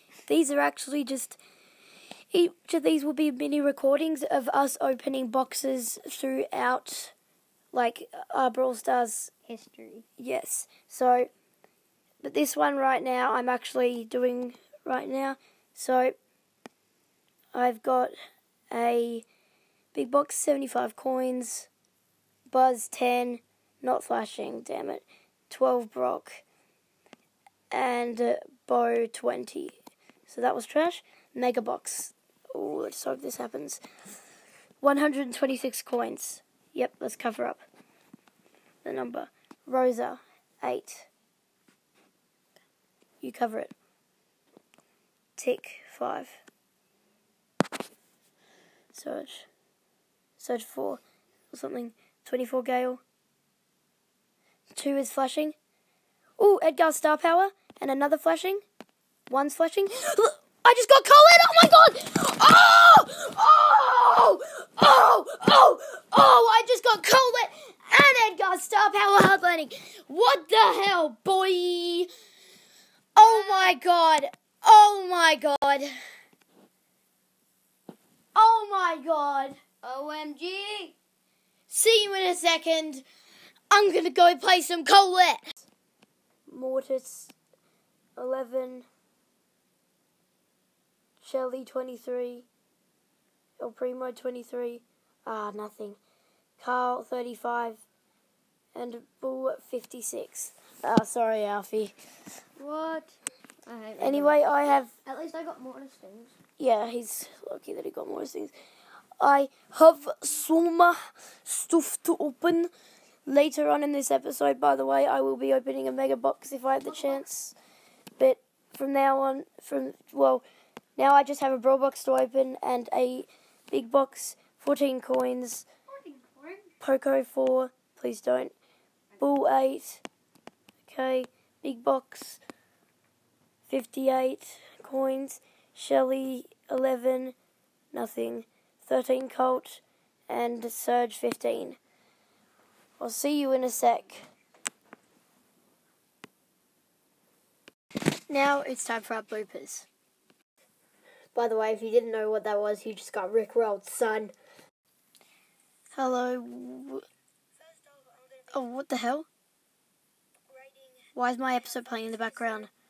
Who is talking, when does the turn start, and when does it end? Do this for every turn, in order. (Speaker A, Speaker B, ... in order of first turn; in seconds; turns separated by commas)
Speaker A: 0.2-1.4, Speaker A: 2.3-7.1, Speaker A: 7.7-9.3, Speaker B: 9.5-10.0, Speaker A: 10.2-11.3, Speaker A: 12.2-16.1, Speaker A: 17.5-18.1, Speaker A: 18.7-19.2, Speaker A: 19.9-21.7, Speaker A: 22.5-26.4, Speaker A: 27.7-33.8, Speaker A: 34.8-37.6, Speaker A: 38.8-41.1, Speaker A: 43.2-43.7, Speaker A: 45.4-46.4, Speaker A: 48.9-49.5, Speaker A: 50.4-53.0, Speaker A: 54.7-55.5, Speaker A: 56.4-58.6, Speaker A: 59.3-72.1, Speaker A: 73.1-75.9, Speaker B: 73.2-73.7, Speaker A: 78.3-79.6, Speaker B: 79.8-80.9, Speaker A: 81.7-83.0, Speaker A: 83.7-85.6, Speaker A: 86.5-87.3, Speaker A: 88.2-88.9, Speaker A: 91.2-92.5, Speaker A: 93.6-96.0, Speaker A: 96.6-97.8, Speaker A: 98.7-101.9, Speaker B: 102.6-106.3, Speaker A: 104.0-104.9, Speaker A: 106.6-108.5, Speaker A: 109.2-112.7, Speaker A: 113.3-117.5, Speaker A: 118.2-120.4, Speaker A: 121.0-125.7, Speaker B: 125.9-126.7, Speaker A: 126.8-128.5, Speaker A: 129.2-130.0, Speaker A: 130.8-132.4, Speaker A: 133.7-137.3, Speaker A: 137.9-141.8, Speaker A: 143.0-144.2, Speaker A: 148.3-149.9, Speaker A: 151.3-154.3, Speaker A: 155.9-157.0, Speaker A: 158.5-159.3, Speaker A: 161.1-162.7